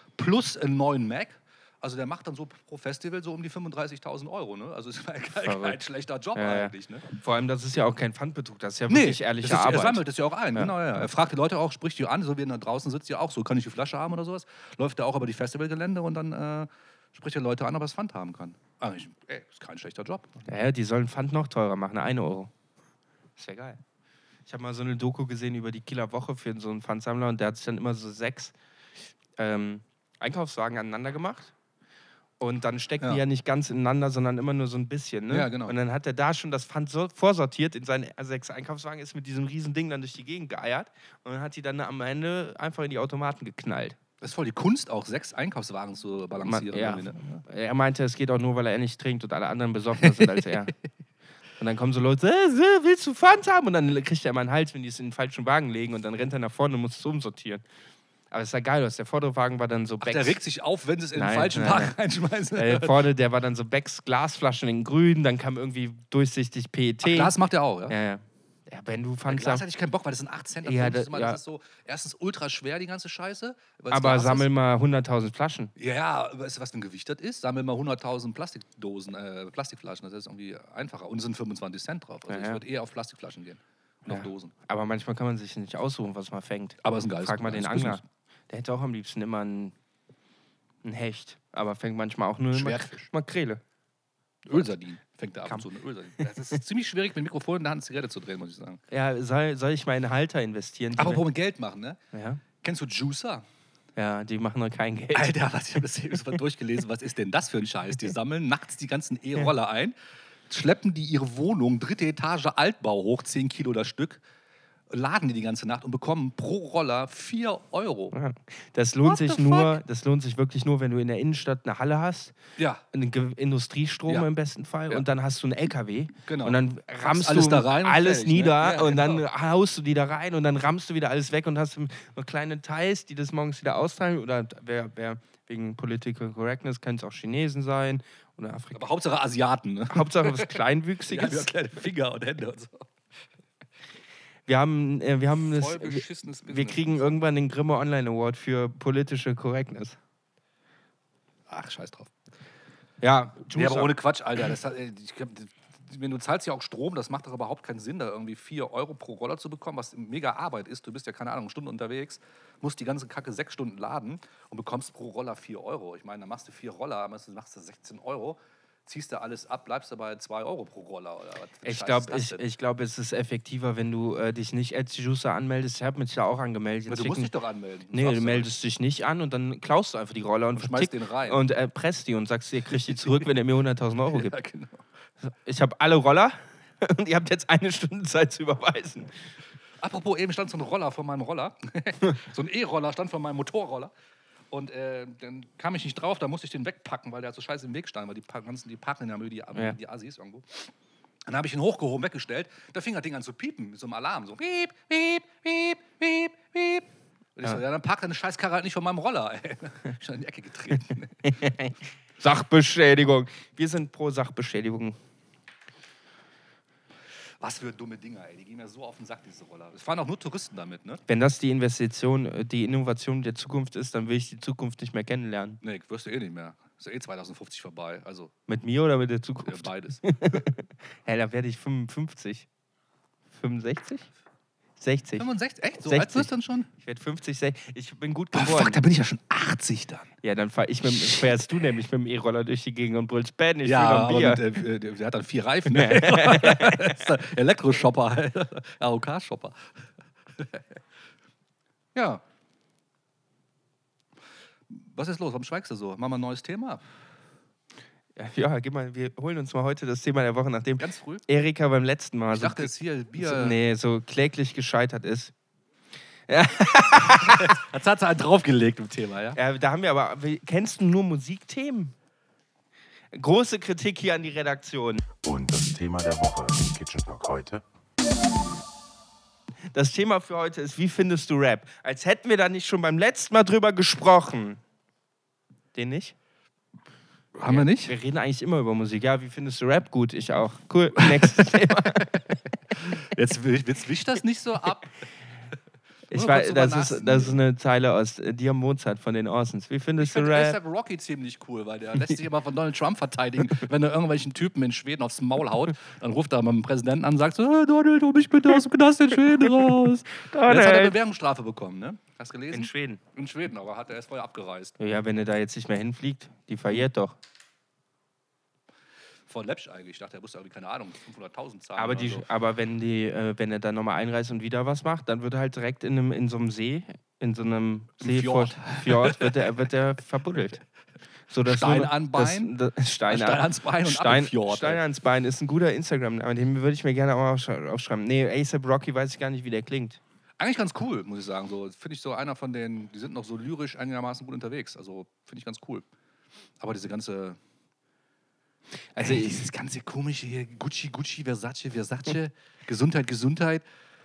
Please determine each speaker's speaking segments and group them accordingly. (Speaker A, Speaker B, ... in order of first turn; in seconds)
Speaker A: 0.2-7.0, 8.9-20.4, 35.3-35.8, 44.2-47.4, 60.0-63.0, 67.0-67.9, 69.3-74.5, 75.8-84.5, 86.8-88.0, 92.5-93.1, 94.5-98.8, 101.0-102.0, 102.6-103.4, 105.1-109.9, 110.5-114.2, 114.9-118.1, 119.0-119.8, 122.6-122.8, 126.3-129.2, 138.7-140.6, 141.1-142.9, 145.5-147.1, 151.5-152.1, 153.5-172.4, 176.9-178.5, 180.6-181.4, 182.8-183.2, 184.1-184.8, 189.8-193.9, 194.5-200.7, 201.2-211.3, 217.4-221.0, 225.6-228.3, 229.4-230.4, 235.2-236.7, 238.3-240.1, 241.0-241.2, 243.6-249.6, 250.3-250.6, 251.9-252.2, 254.7-256.8, 260.8-261.2, 262.3-263.6, 267.2-269.4, 287.3-287.9, 291.0-292.0, 292.8-294.9, 296.1-297.4, 300.0-314.8, 319.3-322.2, 328.0-329.4, 331.4-332.5, 333.1-334.8, 340.4-345.9, 346.6-347.4, 348.9-353.6
Speaker B: 5.4-5.8, 6.3-10.0, 10.5-11.1, 20.5-22.5, 23.4-23.8, 24.4-28.5, 29.4-31.5, 32.4-44.0, 46.4-50.7, 51.6-57.6, 58.3-60.4, 61.1-61.9, 62.5-67.3, 67.9-69.6, 70.6-71.4, 73.9-75.7, 82.3-82.6, 84.1-89.7, 90.8-93.6, 98.9-101.2, 102.1-102.4, 104.0-105.4, 118.1-122.3, 122.9-138.9, 139.9-141.5, 144.5-150.0, 153.0-153.9, 171.6-177.3, 177.9-184.4, 185.2-189.1, 211.2-215.0, 221.1-225.6, 228.5-232.5, 233.3-234.1, 234.8-235.2, 235.8-238.8, 240.2-244.4, 245.7-247.1, 258.1-265.3, 266.3-267.6, 269.3-271.9, 273.1-275.0, 279.7-284.6, 285.7-286.1, 287.4-292.3, 296.1-300.6, 309.4-310.9, 312.5-313.0, 314.8-317.2, 321.8-330.6, 331.3-340.0, 349.0-349.3
Speaker C: 275.2-277.6